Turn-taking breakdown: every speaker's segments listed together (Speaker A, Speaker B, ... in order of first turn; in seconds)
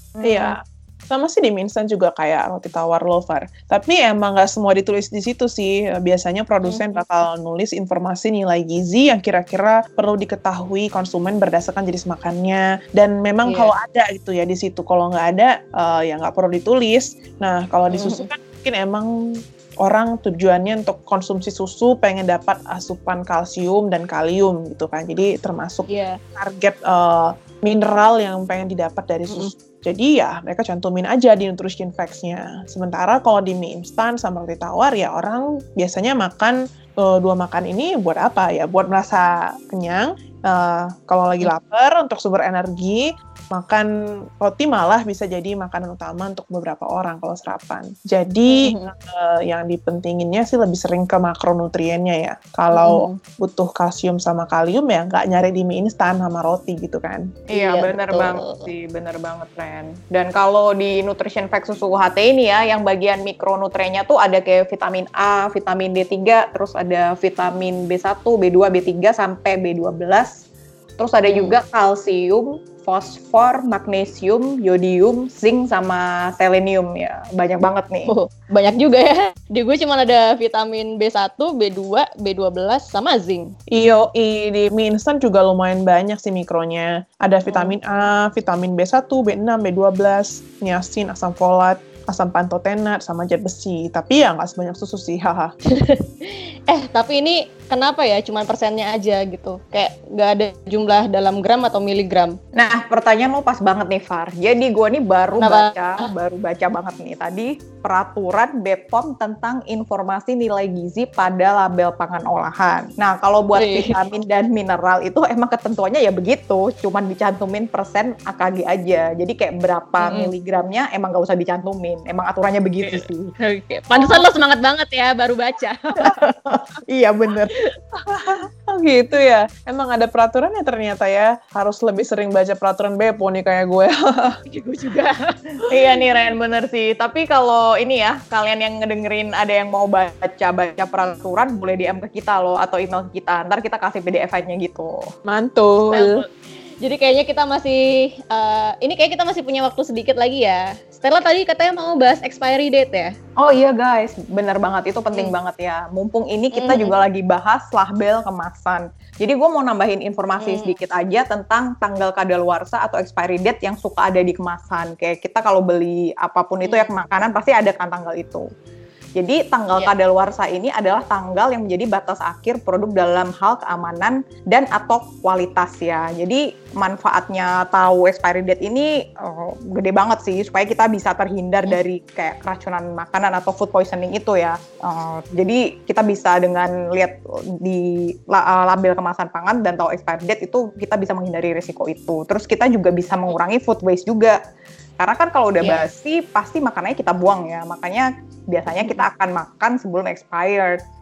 Speaker A: 0.2-0.5, 57.5-70.4, 71.0-78.1, 102.5-123.3, 126.0-127.5, 135.7-145.0, 153.4-168.5, 169.2-194.4, 195.0-200.8
Speaker B: 0.2-57.3, 83.7-95.5, 127.9-134.4, 145.2-146.2
Speaker C: 6.7-7.0, 13.4-13.7, 17.9-18.3, 25.9-26.2, 48.5-48.9, 52.7-53.2, 57.5-58.7, 71.2-71.6, 78.1-83.5, 87.5-87.8, 95.7-102.4, 105.4-106.1, 113.6-113.9, 120.0-120.3, 122.8-126.2, 134.5-135.6, 145.9-146.3, 146.8-153.1, 156.6-157.0, 160.4-160.8, 166.6-166.9, 195.6-195.9